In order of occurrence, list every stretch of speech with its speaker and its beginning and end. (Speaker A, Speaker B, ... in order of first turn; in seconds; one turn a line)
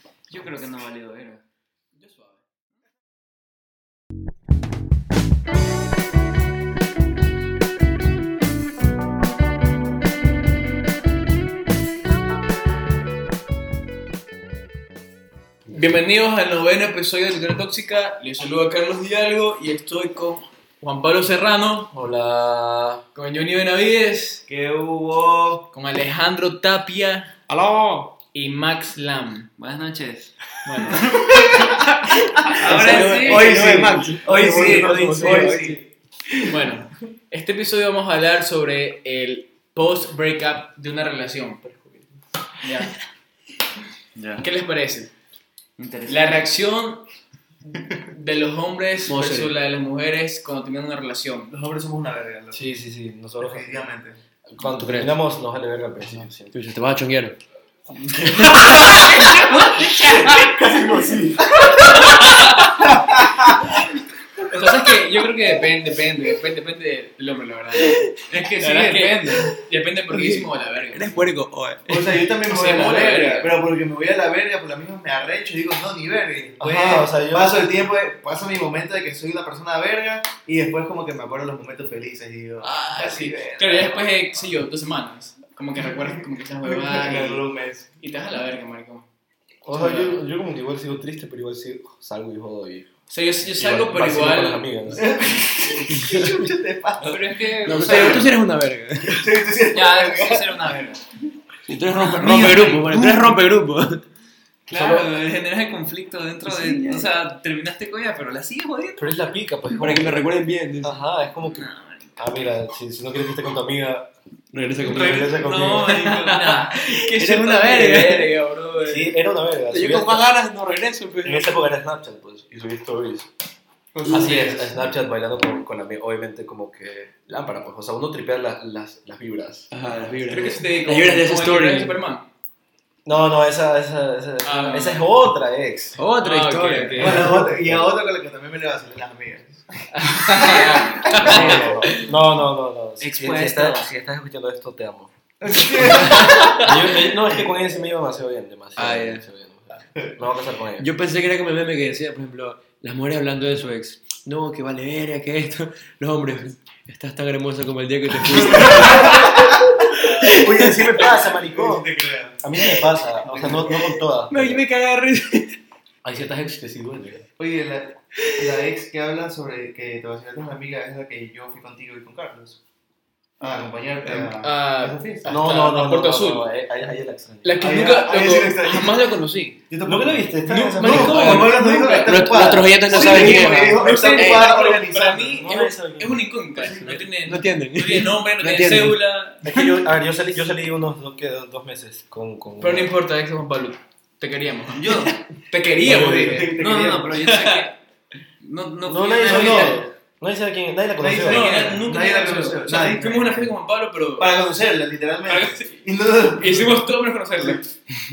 Speaker A: 0.3-1.4
Speaker B: 2.0-2.4
Speaker B: 15.7-21.9
Speaker C: 21.9-23.0
Speaker B: 23.1-24.4
Speaker D: 24.5-25.7
Speaker B: 25.7-27.3
Speaker E: 27.5-28.2
Speaker B: 28.3-29.5
Speaker A: 29.6-31.7
Speaker B: 30.6-31.9
Speaker A: 32.5-33.6
Speaker E: 32.5-35.8
Speaker D: 32.5-35.8
Speaker C: 32.8-35.8
Speaker B: 36.5-41.6
Speaker C: 41.7-42.0
Speaker B: 42.6-42.9
Speaker A: 44.1-44.5
Speaker B: 44.4-45.1
Speaker A: 45.8-46.5
Speaker B: 46.1-47.1
Speaker B: 47.7-51.5
Speaker E: 49.1-49.5
Speaker D: 51.5-52.7
Speaker C: 52.5-53.8
Speaker D: 53.4-54.2
Speaker C: 54.5-56.6
Speaker E: 54.6-55.2
Speaker E: 56.2-57.4
Speaker B: 58.0-60.5
Speaker D: 60.1-63.7
Speaker B: 62.0-62.9
Speaker B: 64.4-71.3
Speaker A: 68.3-69.2
Speaker E: 70.1-72.2
Speaker D: 71.9-84.1
Speaker B: 72.5-73.6
Speaker C: 76.4-77.7
Speaker B: 82.6-87.5
Speaker D: 86.0-87.9
Speaker B: 88.0-89.1
Speaker C: 89.7-92.9
Speaker B: 89.7-90.2
Speaker B: 93.1-94.7
Speaker C: 93.5-95.1
Speaker D: 94.9-98.3
Speaker E: 96.0-96.3
Speaker A: 97.0-98.3
Speaker E: 97.7-99.3
Speaker D: 99.0-101.0
Speaker A: 99.7-101.0
Speaker E: 101.7-104.0
Speaker A: 101.9-103.0
Speaker A: 104.7-109.2
Speaker C: 104.7-105.1
Speaker E: 106.5-107.1
Speaker C: 109.0-116.0
Speaker E: 109.7-111.0
Speaker A: 111.5-112.2
Speaker E: 114.5-118.3
Speaker A: 114.8-116.8
Speaker B: 115.9-119.2
Speaker C: 118.8-120.3
Speaker E: 119.7-121.6
Speaker C: 121.2-123.3
Speaker E: 124.0-124.4
Speaker B: 124.1-124.7
Speaker C: 124.1-130.6
Speaker E: 129.7-132.0
Speaker B: 130.3-132.3
Speaker C: 133.1-136.0
Speaker B: 134.4-135.1
Speaker E: 136.0-137.3
Speaker B: 136.1-137.3
Speaker D: 137.0-141.9
Speaker C: 137.0-138.0
Speaker B: 139.9-142.1
Speaker C: 141.1-145.1
Speaker A: 141.2-141.8
Speaker E: 141.3-141.7
Speaker A: 143.0-143.9
Speaker D: 145.4-146.5
Speaker A: 146.1-146.6
Speaker B: 146.1-146.7
Speaker C: 146.6-150.9
Speaker E: 148.8-149.2
Speaker E: 150.8-161.2
Speaker C: 158.5-159.3
Speaker D: 158.5-159.6
Speaker C: 160.2-164.6
Speaker D: 161.4-162.4
Speaker E: 163.5-165.6
Speaker C: 166.0-167.3
Speaker D: 167.4-172.6
Speaker D: 173.4-175.3
Speaker B: 174.1-176.5
Speaker C: 175.2-177.6
Speaker B: 177.4-179.6
Speaker D: 177.6-179.1
Speaker D: 179.7-185.5
Speaker C: 179.8-181.5
Speaker B: 180.8-182.2
Speaker E: 180.8-184.5
Speaker B: 182.8-189.4
Speaker C: 185.4-186.3
Speaker D: 186.6-187.0
Speaker E: 186.8-189.8
Speaker C: 189.4-192.9
Speaker B: 192.6-196.6
Speaker D: 194.8-195.2
Speaker D: 195.8-197.2
Speaker C: 195.8-196.4
Speaker A: 196.6-197.8
Speaker B: 197.1-197.7
Speaker A: 198.4-199.9
Speaker C: 198.8-201.7
Speaker D: 199.2-199.8
Speaker D: 201.0-203.5
Speaker B: 201.2-204.3
Speaker D: 204.2-206.9
Speaker B: 205.2-207.7